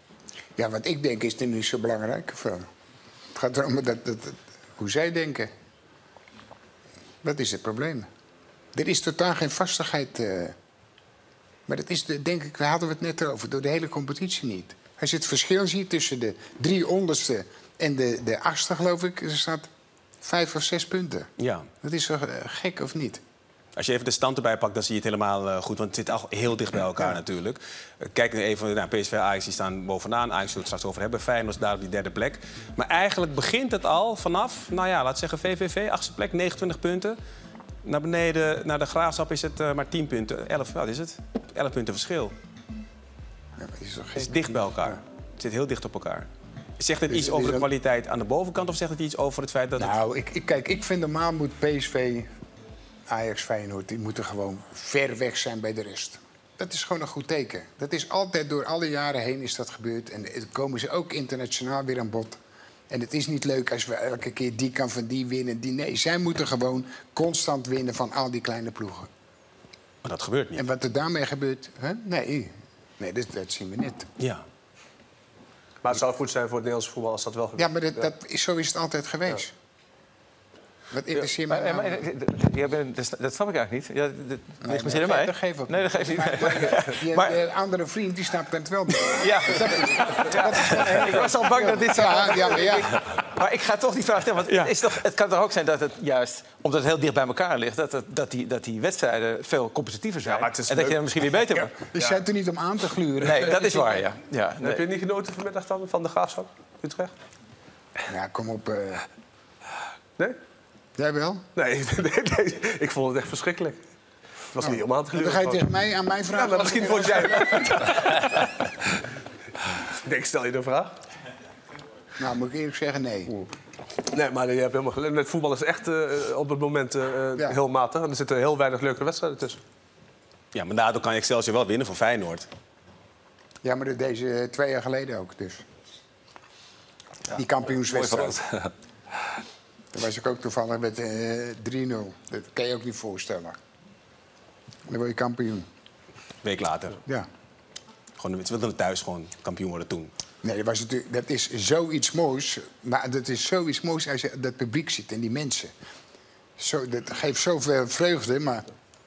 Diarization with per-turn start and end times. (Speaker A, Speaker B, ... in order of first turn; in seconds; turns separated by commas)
Speaker A: 0.6-2.7, Speaker A: 3.3-5.5, Speaker A: 7.2-8.1, Speaker A: 8.8-10.6, Speaker A: 11.7-19.7, Speaker A: 20.2-21.3, Speaker B: 21.4-21.7, Speaker A: 21.8-23.2, Speaker B: 23.8-37.2, Speaker B: 37.8-42.3, Speaker A: 43.6-45.0, Speaker B: 44.2-46.3, Speaker B: 46.8-50.0, Speaker A: 47.1-47.7, Speaker A: 49.8-52.3, Speaker A: 53.1-62.4, Speaker A: 62.9-69.1, Speaker B: 70.0-70.6, Speaker A: 70.5-74.1, Speaker C: 75.8-78.0, Speaker A: 77.6-79.5, Speaker A: 80.9-82.0, Speaker D: 81.2-87.4, Speaker A: 84.6-93.0, Speaker D: 89.0-101.8, Speaker B: 94.5-94.8, Speaker C: 100.2-102.2, Speaker A: 101.9-104.0, Speaker D: 103.2-104.8, Speaker C: 104.6-107.1, Speaker A: 108.1-109.1, Speaker A: 111.0-111.4, Speaker C: 111.6-113.8, Speaker C: 114.5-115.7, Speaker A: 114.6-118.1, Speaker C: 116.3-118.9, Speaker C: 119.6-121.0, Speaker A: 122.2-123.4, Speaker C: 124.1-129.6, Speaker B: 130.5-132.5, Speaker A: 133.6-135.6, Speaker A: 137.3-138.4, Speaker D: 137.9-138.7, Speaker A: 139.9-143.6, Speaker A: 144.9-145.7, Speaker B: 146.4-147.0, Speaker B: 148.2-150.1, Speaker A: 150.4-155.7, Speaker A: 156.6-158.7